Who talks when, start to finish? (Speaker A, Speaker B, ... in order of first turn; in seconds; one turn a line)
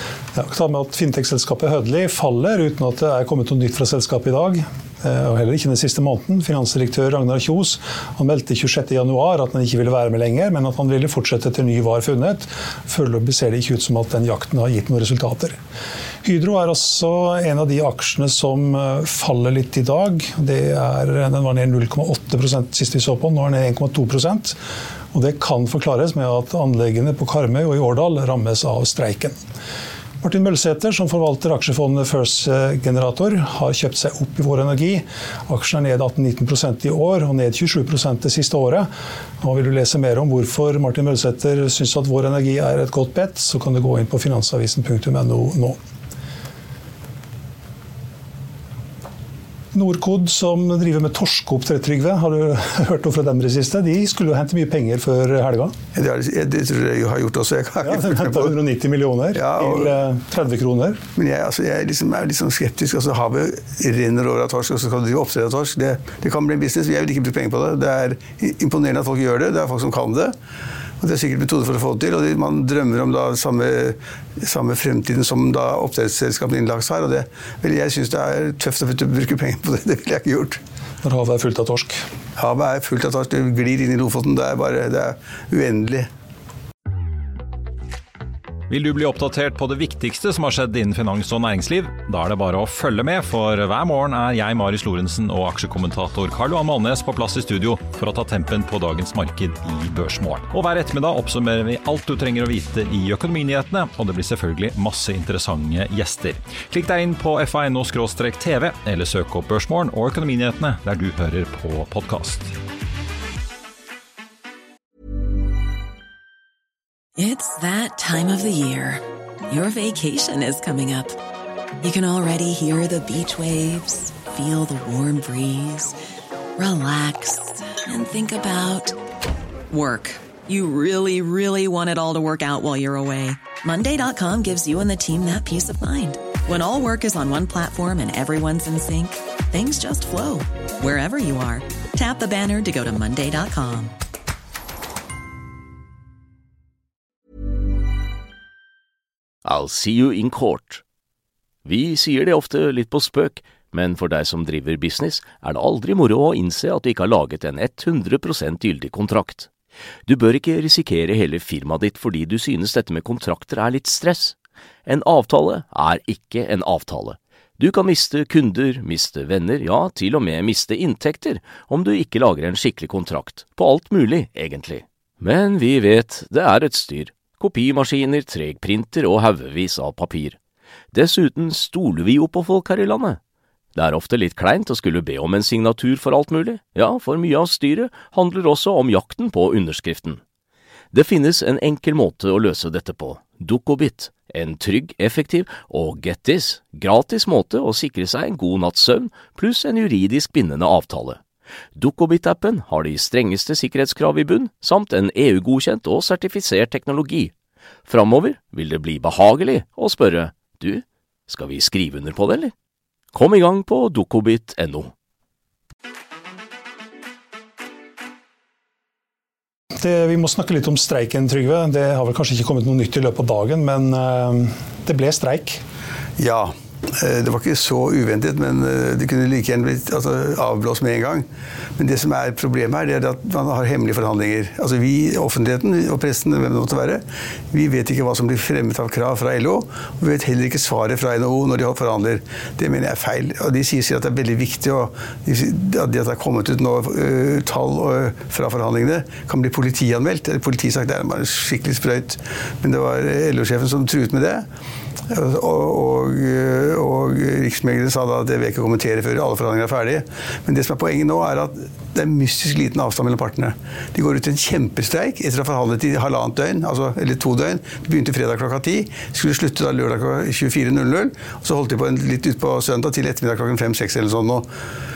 Speaker A: 0.3-15.6
Speaker A: 16.2-24.6
Speaker A: 25.1-29.4
Speaker A: 30.2-38.9
Speaker A: 39.4-45.8
Speaker A: 49.7-55.7
Speaker B: 55.9-58.5
Speaker A: 57.8-61.0
Speaker B: 59.3-59.9
Speaker B: 61.1-70.3
Speaker B: 71.0-80.6
Speaker A: 81.0-82.0
Speaker B: 82.4-86.1
Speaker C: 88.7-112.5
Speaker D: 117.2-121.2
Speaker D: 121.8-125.9
Speaker D: 126.6-128.9
Speaker D: 129.7-143.9
Speaker E: 149.4-150.8
Speaker E: 151.6-159.5
Speaker E: 160.1-164.3
Speaker E: 164.8-180.4
Speaker E: 180.9-183.2
Speaker E: 183.7-190.2
Speaker E: 190.9-201.2
Speaker E: 201.8-207.3
Speaker E: 207.9-212.5
Speaker E: 213.1-214.9
Speaker A: 219.8-225.6
Speaker B: 226.2-231.2
Speaker B: 231.8-254.4
Speaker B: 255.1-274.4